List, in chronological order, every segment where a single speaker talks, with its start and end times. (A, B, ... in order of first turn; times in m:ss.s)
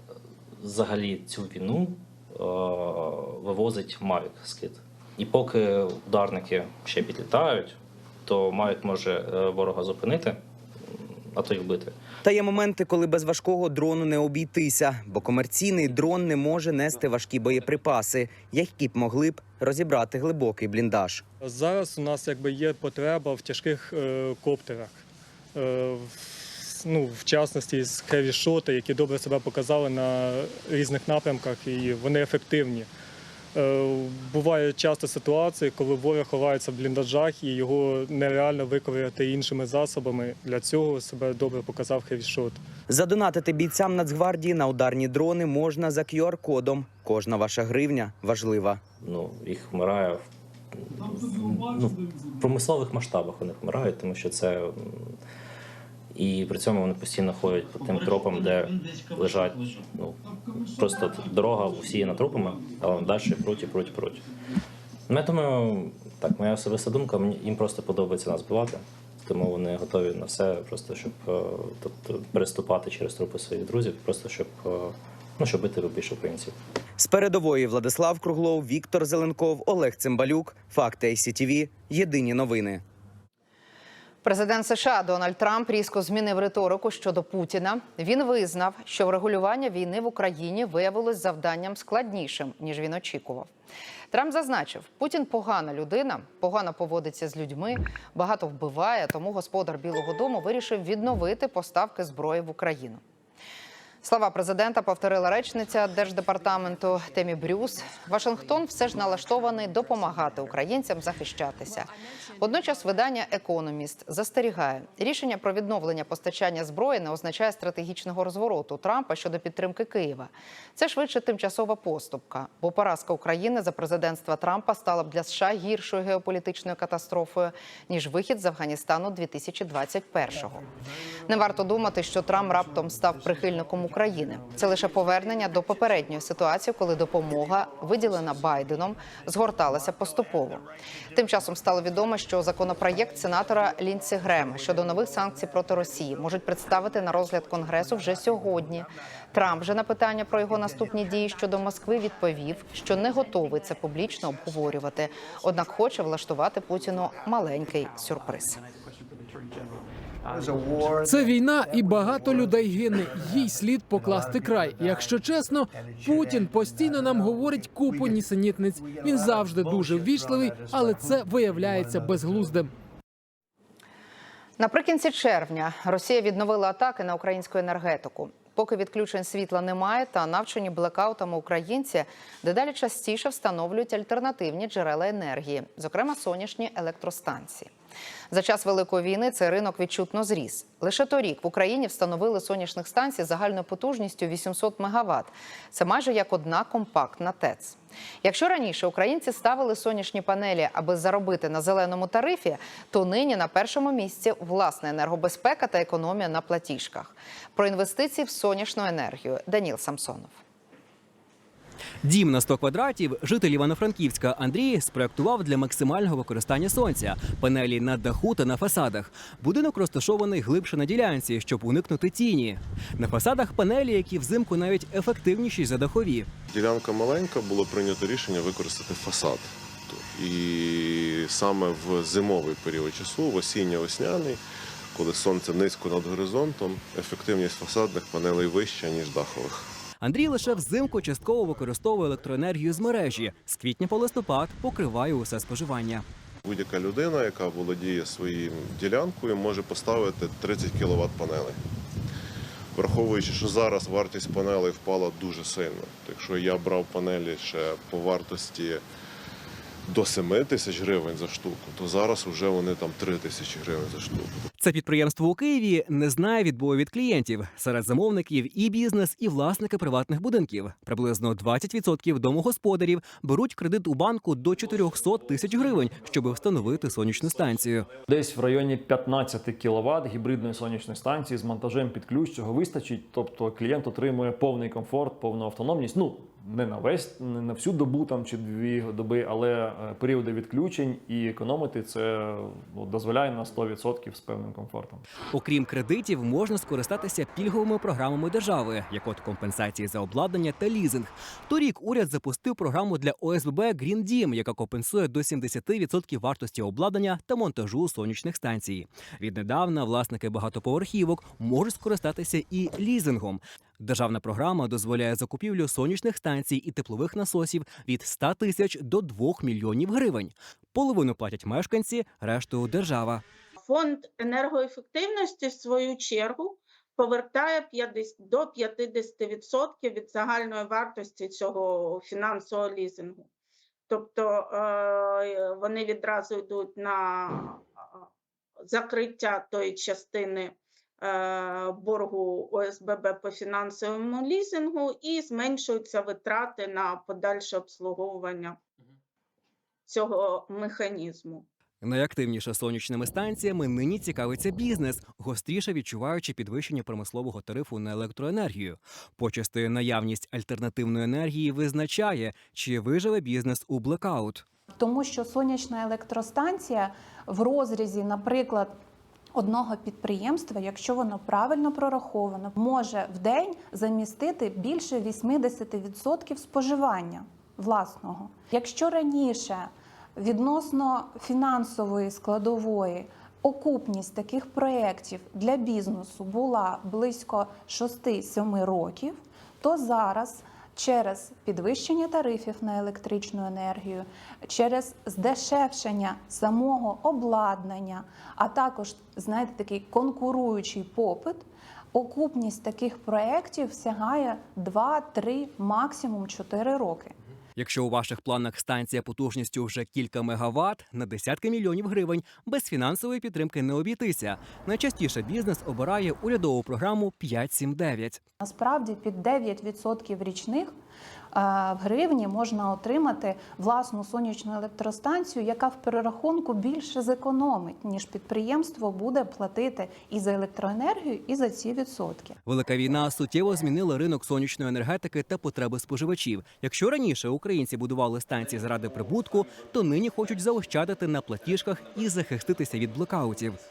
0:00.6-0:12.0 A
0:12.2-0:21.2 B
0:21.4-0:25.0 C
0:25.6-0:32.9 C
0:33.6-0:42.6 C
0:42.9-0:48.8 B
0:49.0-0:50.2 A
0:50.8-0:55.2 A
0:56.2-1:04.2 A
1:05.1-1:16.6 A
1:17.0-1:22.8 B
1:24.2-1:33.5 D
1:34.1-1:43.0 D
1:44.0-2:10.6 D
2:11.3-2:38.6 D
2:41.0-2:52.7 E
2:54.6-3:07.7 D
3:08.3-3:30.4 D
3:32.0-3:46.3 F
3:46.5-3:59.7 G
4:00.0-4:06.0 F
4:06.4-4:11.6 G
4:12.7-4:18.8 G
4:19.9-4:24.4 G
4:24.6-4:37.9 F
4:38.1-4:55.0 H
4:55.3-5:23.2 F
5:23.6-5:33.3 I
5:33.9-5:38.1 I
5:38.7-5:48.6 I
5:49.9-5:51.5 I
5:51.8-6:04.4 F
6:04.7-6:08.8 J
6:09.4-6:47.2 J
6:47.6-6:58.2 F
6:58.4-7:00.7 J
7:01.3-7:12.4 J
7:12.5-7:23.6 F